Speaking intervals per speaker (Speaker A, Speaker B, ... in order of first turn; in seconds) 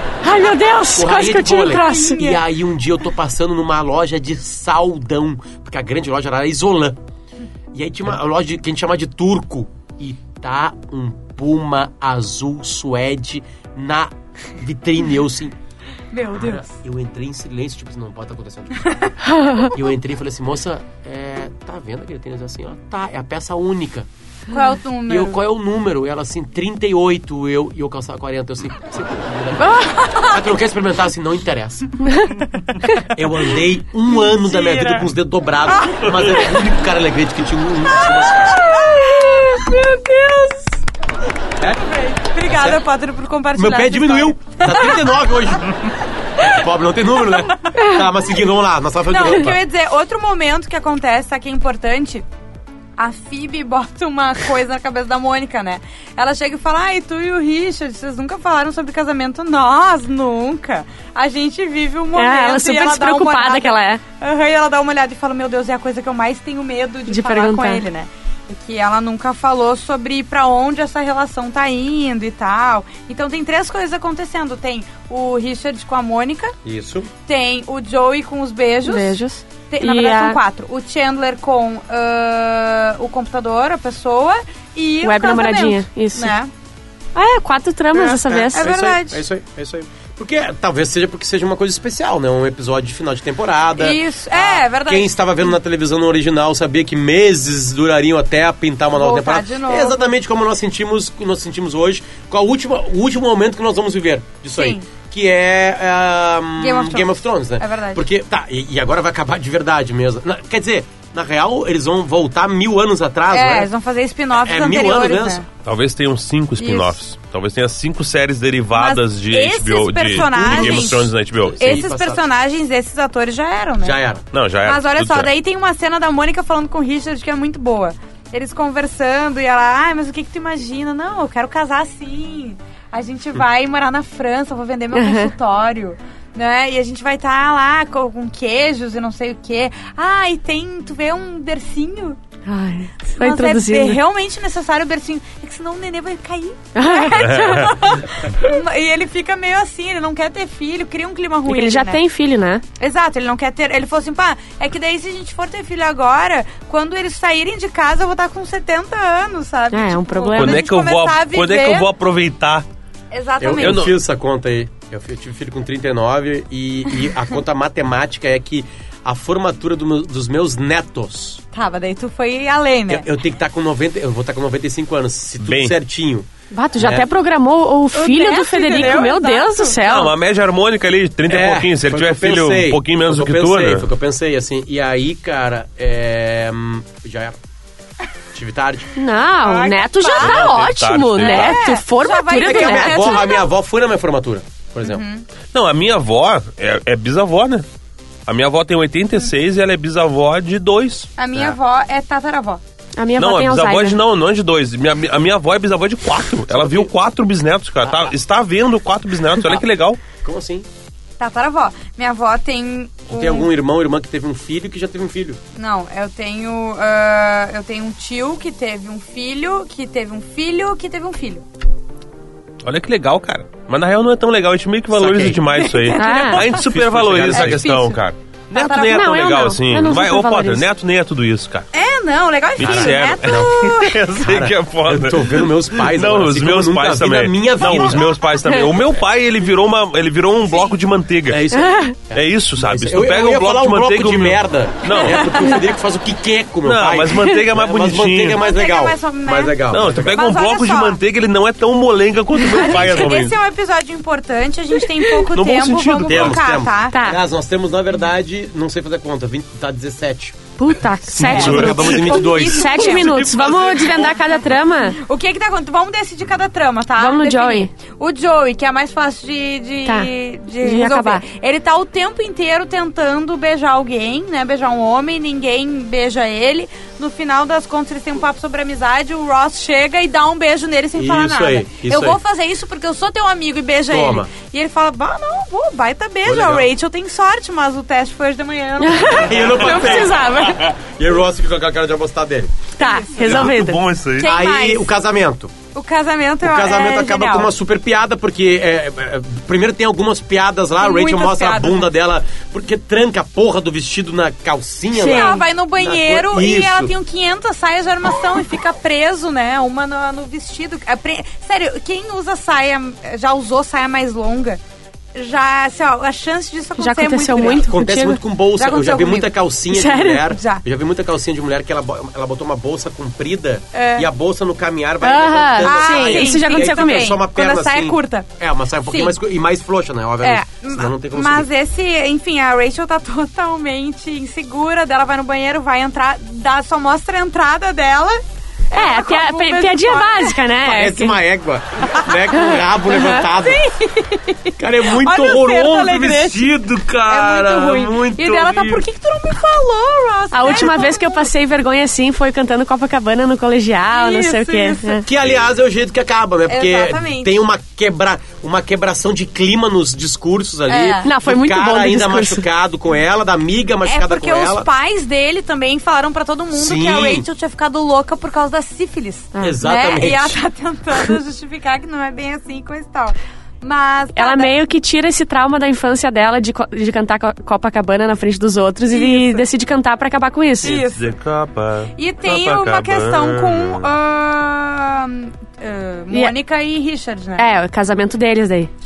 Speaker A: 0.2-2.2, 29.6-29.9, 38.7-40.6, 62.1-64.0, 67.1-67.8, 78.8-80.4, 85.0-86.3, 87.2-88.7, 134.9-135.3, 142.4-144.0, 146.8-147.8, 151.5-152.6, 159.7-160.7, 176.5-180.1, 189.0-193.3, 203.0-204.0, 226.0-226.5, 228.7-230.7, 238.4-238.7, 241.6-241.9, 256.9-257.2, 260.6-265.0, 267.0-267.7, 270.6-271.2, 288.8-290.7, 292.8-293.8, 304.9-305.4, 316.8-318.2, 319.7-320.3, 325.0-327.2, 338.7-341.2, 342.4-343.2, 350.3-355.0, 361.0-362.4, 374.2-380.8, 387.4-388.7
Speaker B: 0.9-7.0, 7.7-15.6, 16.3-18.9, 19.6-24.1, 25.1-32.0, 33.1-38.7, 42.5-42.8, 43.5-49.6, 76.6-77.1, 87.9-113.7, 114.3-115.4, 120.2-122.2, 123.8-124.2, 163.4-171.4, 172.9-177.1, 181.3-187.4, 188.3-188.9, 192.4-195.0, 206.5-206.9, 207.8-208.1, 210.1-210.7, 213.1-215.4, 224.9-225.5, 226.5-227.7, 232.6-233.5, 234.2-238.2, 241.3-250.2, 255.4-260.5, 261.1-264.2, 280.9-282.2, 283.9-284.3, 286.2-286.7, 289.1-292.5, 294.2-295.5, 296.4-306.9, 317.4-331.5, 340.6-343.6, 344.6-348.9, 355.1-364.7, 366.5-367.3, 369.4-370.4
Speaker C: 1.6-2.4, 16.1-16.7, 18.9-19.1, 24.5-25.4, 29.9-30.4, 34.1-35.1, 35.7-36.0, 38.6-39.4, 41.8-45.2, 47.5-47.9, 49.1-52.3, 53.0-76.5, 77.3-79.2, 79.7-86.5, 88.5-89.2, 93.8-95.5, 99.0-100.1, 104.6-104.9, 106.6-108.0, 113.3-115.5, 116.6-117.0, 118.7-124.0, 124.6-142.2, 143.0-152.0, 152.8-161.9, 163.1-163.9, 171.5-173.1, 177.9-179.8, 189.4-190.6, 191.2-193.5, 194.8-195.2, 201.2-202.6, 211.2-213.5, 215.6-221.4, 225.6-226.7, 227.3-229.1, 231.7-234.0, 244.9-245.6, 248.4-251.0, 252.4-257.0, 261.2-290.6, 292.8-293.5, 294.2-294.9, 295.7-297.5, 300.8-301.9, 305.0-314.6, 315.1-317.7, 318.6-319.3, 320.3-320.6, 323.7-324.1, 325.6-328.3, 328.9-329.2, 330.2-340.4, 343.4-346.5, 347.1-351.3, 353.9-355.1, 356.5-357.4, 360.7-361.1, 363.9-374.6, 378.9-379.5, 380.6-381.1, 382.0-387.5
Speaker D: 115.6-121.8, 124.3-125.3, 147.2-147.8, 160.4-162.7, 163.6-163.9, 175.4-175.7, 179.8-183.9, 190.2-191.6, 195.5-197.7, 198.3-201.1, 203.2-210.0, 222.6-231.7, 232.6-241.4, 242.1-245.6, 246.7-248.4, 249.7-253.4, 255.3-256.4, 261.2-261.8, 293.3-294.3, 380.6-383.9